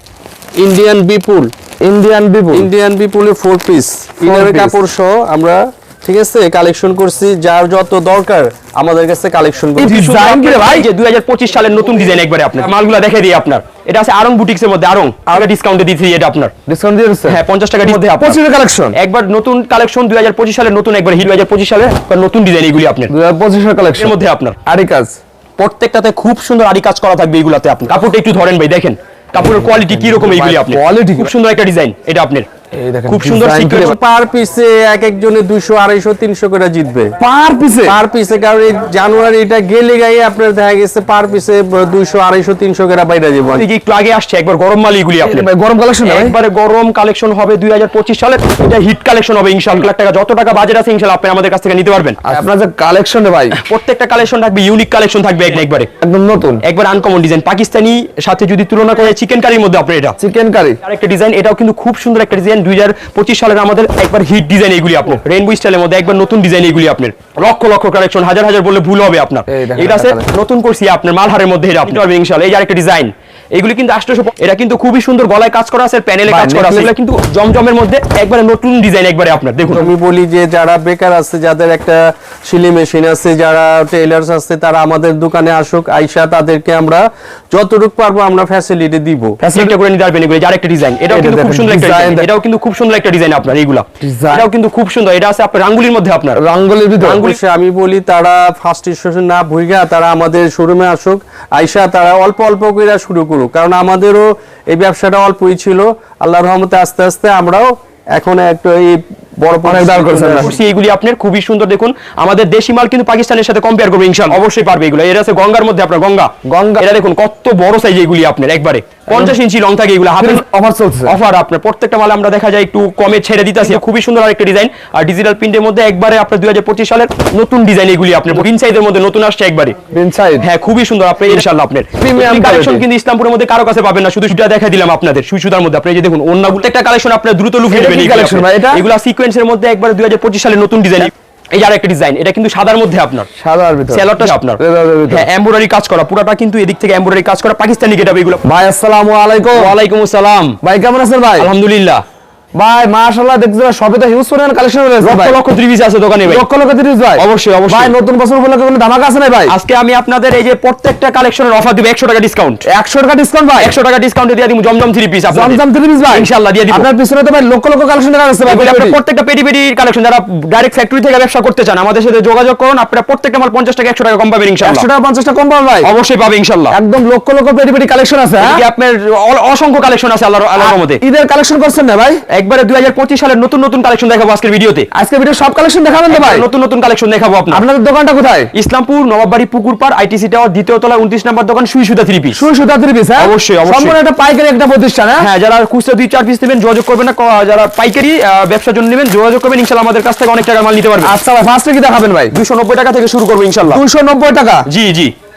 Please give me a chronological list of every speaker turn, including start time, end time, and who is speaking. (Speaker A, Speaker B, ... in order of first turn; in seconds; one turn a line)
Speaker A: 0.6-1.5
Speaker B: 1.8-2.7
Speaker A: 2.5-10.0
Speaker B: 4.2-4.8
Speaker B: 9.8-10.9
Speaker C: 9.8-16.5
Speaker B: 16.7-19.0
Speaker C: 17.3-23.1
Speaker B: 23.1-25.2
Speaker C: 24.0-24.6
Speaker C: 25.6-32.5
Speaker B: 29.4-31.3
Speaker B: 32.7-34.0
Speaker C: 33.1-34.0
Speaker A: 33.7-37.1
Speaker B: 37.2-38.0
Speaker A: 37.9-43.6
Speaker C: 43.5-45.5
Speaker B: 45.2-46.4
Speaker C: 46.0-52.2
Speaker B: 52.2-53.6
Speaker C: 53.5-55.9
Speaker B: 56.0-56.6
Speaker C: 56.6-60.2
Speaker B: 60.2-60.8
Speaker C: 60.8-79.9
Speaker B: 69.5-70.3
Speaker B: 76.3-76.9
Speaker A: 79.7-89.4
Speaker B: 89.4-89.7
Speaker C: 89.5-96.4
Speaker B: 91.1-92.3
Speaker B: 94.0-94.5
Speaker B: 96.4-97.2
Speaker C: 97.0-97.4
Speaker A: 97.0-110.5
Speaker B: 109.6-110.5
Speaker C: 110.4-120.4
Speaker B: 116.5-116.9
Speaker B: 120.2-121.2
Speaker C: 121.1-129.8
Speaker B: 129.9-130.5
Speaker C: 130.4-143.3
Speaker B: 132.0-132.9
Speaker B: 137.7-138.8
Speaker B: 143.3-145.3
Speaker C: 143.9-148.4
Speaker B: 148.4-149.7
Speaker C: 149.6-150.6
Speaker B: 150.6-151.5
Speaker C: 151.4-152.0
Speaker B: 152.6-155.4
Speaker C: 155.0-156.4
Speaker B: 156.2-159.6
Speaker C: 157.2-157.9
Speaker C: 159.5-162.7
Speaker B: 162.7-163.7
Speaker C: 163.6-165.6
Speaker B: 165.3-169.0
Speaker C: 166.1-166.9
Speaker C: 168.5-174.9
Speaker B: 174.6-175.9
Speaker C: 175.8-176.8
Speaker B: 176.7-178.6
Speaker C: 178.4-181.0
Speaker B: 180.6-182.2
Speaker C: 182.3-184.9
Speaker B: 184.9-186.5
Speaker C: 186.1-187.6
Speaker B: 187.5-188.5
Speaker C: 188.5-192.4
Speaker B: 192.3-195.3
Speaker C: 193.2-193.9
Speaker C: 195.2-201.1
Speaker B: 201.0-202.3
Speaker C: 202.3-203.8
Speaker B: 203.7-204.7
Speaker C: 204.7-205.1